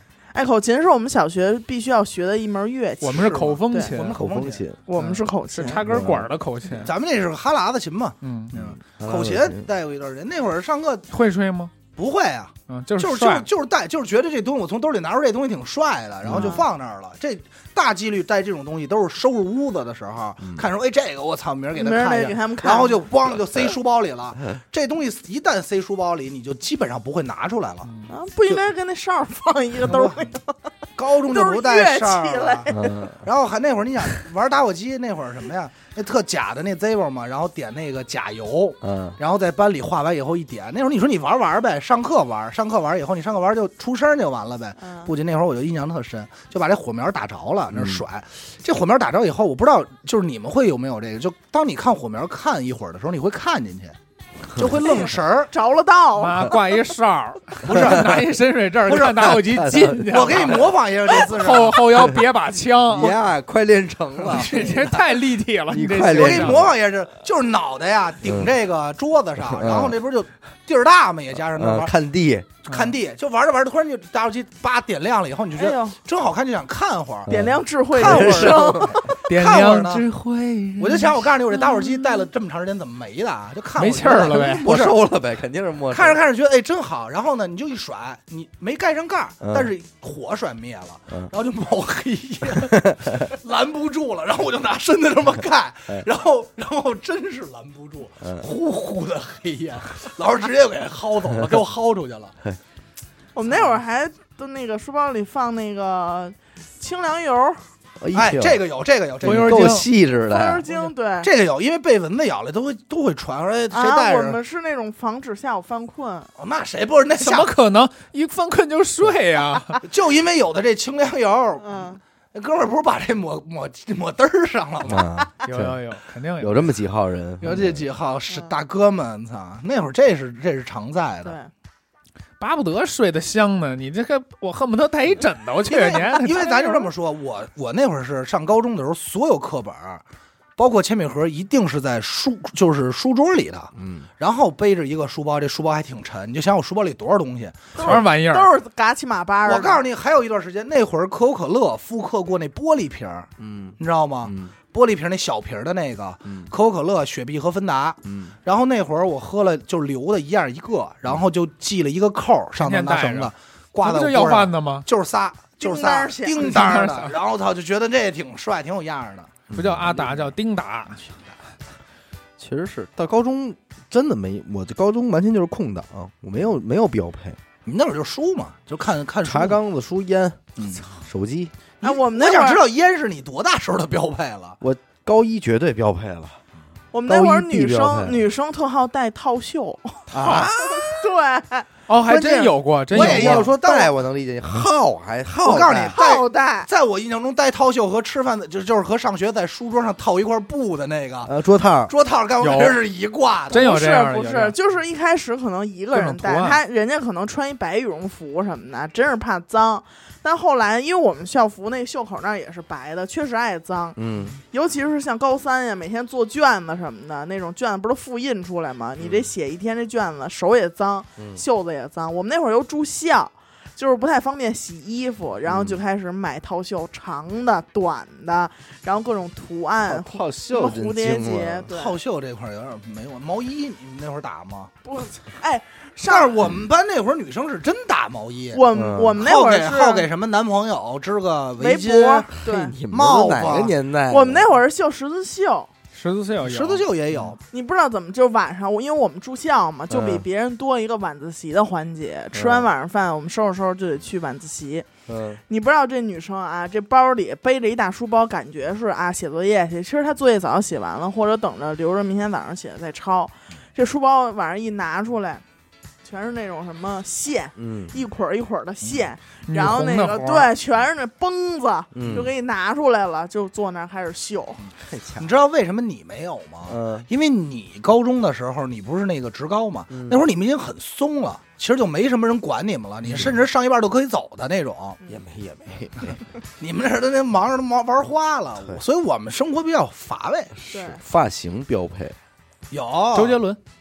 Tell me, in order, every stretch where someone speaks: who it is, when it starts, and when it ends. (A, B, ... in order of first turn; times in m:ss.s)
0:00.3-0:03.9 A
0:03.0-0:04.2 B
0:03.1-0:04.6 C
0:04.1-0:04.8 D
0:04.9-0:05.8 A
0:05.0-0:06.9 B
0:05.8-0:06.3 D
0:06.8-0:11.0 C
0:08.2-0:08.5 B
0:08.5-0:09.7 D
0:11.1-0:11.7 B
0:12.0-0:27.9 C
0:12.7-0:13.5 B
0:16.2-0:16.6 D
0:16.3-0:16.6 A
0:21.7-0:23.0 A
0:27.8-0:28.1 B
0:28.1-0:30.6 A
0:29.8-0:30.3 C
0:31.0-0:54.0 C
0:31.3-0:32.8 A
0:32.7-0:33.2 D
0:38.8-0:39.2 D
0:44.8-0:45.1 A
0:47.7-0:48.0 D
0:54.5-0:55.5 C
0:54.8-0:56.6 A
0:56.2-1:03.2 B
0:57.6-0:58.2 C
0:57.7-0:58.2 D
0:58.9-0:59.4 C
0:59.3-1:00.6 D
1:00.0-1:01.9 C
1:02.9-1:05.1 D
1:04.2-1:04.7 C
1:04.3-1:06.6 B
1:05.7-1:06.7 D
1:06.1-1:11.9 C
1:08.2-1:08.5 D
1:09.4-1:10.0 D
1:11.5-1:12.5 D
1:12.6-1:17.3 C
1:12.7-1:12.9 B
1:15.6-1:16.0 A
1:17.3-1:19.0 D
1:17.3-1:19.1 A
1:17.9-1:20.0 C
1:19.2-1:21.3 B
1:20.8-1:25.0 C
1:21.7-1:22.2 A
1:23.8-1:24.7 B
1:24.6-1:26.2 D
1:25.9-1:42.4 C
1:29.4-1:29.7 D
1:32.7-1:33.1 D
1:38.2-1:38.5 D
1:43.3-1:47.6 A
1:48.0-1:48.6 D
1:48.1-1:49.8 C
1:49.2-1:49.9 B
1:49.2-1:50.6 D
1:50.3-1:51.3 A
1:51.2-1:54.4 C
1:53.7-1:56.3 A
1:56.4-1:57.5 C
1:57.2-1:59.8 B
1:59.8-2:05.1 C
2:01.6-2:02.0 A
2:04.8-2:05.8 D
2:05.4-2:06.8 B
2:06.4-2:07.8 D
2:07.4-2:11.4 C
2:11.2-2:11.5 A
2:12.4-2:16.5 B
2:15.7-2:20.0 C
2:15.9-2:16.9 A
2:20.6-2:28.0 C
2:23.8-2:24.1 D
2:27.8-2:29.8 A
2:27.8-2:28.5 B
2:29.4-2:49.4 C
2:33.4-2:34.5 D
2:36.2-2:36.5 D
2:38.0-2:38.3 D
2:42.6-2:44.9 B
2:45.6-2:46.8 A
2:46.4-2:47.2 B
2:49.5-2:50.1 D
2:49.5-2:51.0 B
2:51.0-2:51.3 C
2:52.4-2:57.4 D
2:57.6-2:59.6 C
2:59.2-3:01.5 D
3:00.6-3:00.8 C
3:01.8-3:04.6 C
3:01.8-3:02.6 A
3:04.6-3:06.4 D
3:06.9-3:11.7 A
3:07.1-3:08.2 D
3:10.1-3:10.8 D
3:11.9-3:13.5 B
3:12.1-3:13.9 C
3:12.9-3:16.0 D
3:15.4-3:21.3 C
3:15.9-3:16.7 A
3:21.2-3:21.9 D
3:21.9-3:23.7 C
3:22.4-3:22.8 B
3:23.5-3:24.6 B
3:23.5-3:34.0 A
3:25.9-3:26.6 B
3:34.0-3:34.4 D
3:34.5-3:52.0 A
3:39.0-3:39.3 D
3:41.2-3:41.4 D
3:45.4-3:45.8 D
3:49.8-3:51.7 D
3:51.7-3:54.7 C
3:54.8-3:56.5 A
3:56.0-3:58.6 C
3:58.5-4:00.1 A
3:58.7-3:59.2 D
3:59.2-4:02.4 C
4:01.6-4:02.7 A
4:02.4-4:04.5 D
4:02.9-4:03.7 C
4:04.1-4:05.7 A
4:05.9-4:06.8 B
4:06.4-4:07.4 C
4:07.5-4:14.8 A
4:09.9-4:10.2 D
4:12.3-4:12.7 D
4:15.1-4:15.4 D
4:15.5-4:25.4 A
4:26.0-4:34.6 A
4:27.6-4:27.9 D
4:29.5-4:30.5 B
4:31.9-4:32.3 D
4:34.8-4:35.3 D
4:35.2-4:45.0 C
4:36.7-4:37.0 D
4:39.9-4:40.2 D
4:43.0-4:43.4 D
4:45.1-4:46.2 D
4:46.6-4:50.5 C
4:50.6-4:52.2 D
4:50.7-4:51.0 A
4:52.7-4:53.4 C
4:53.1-4:53.6 B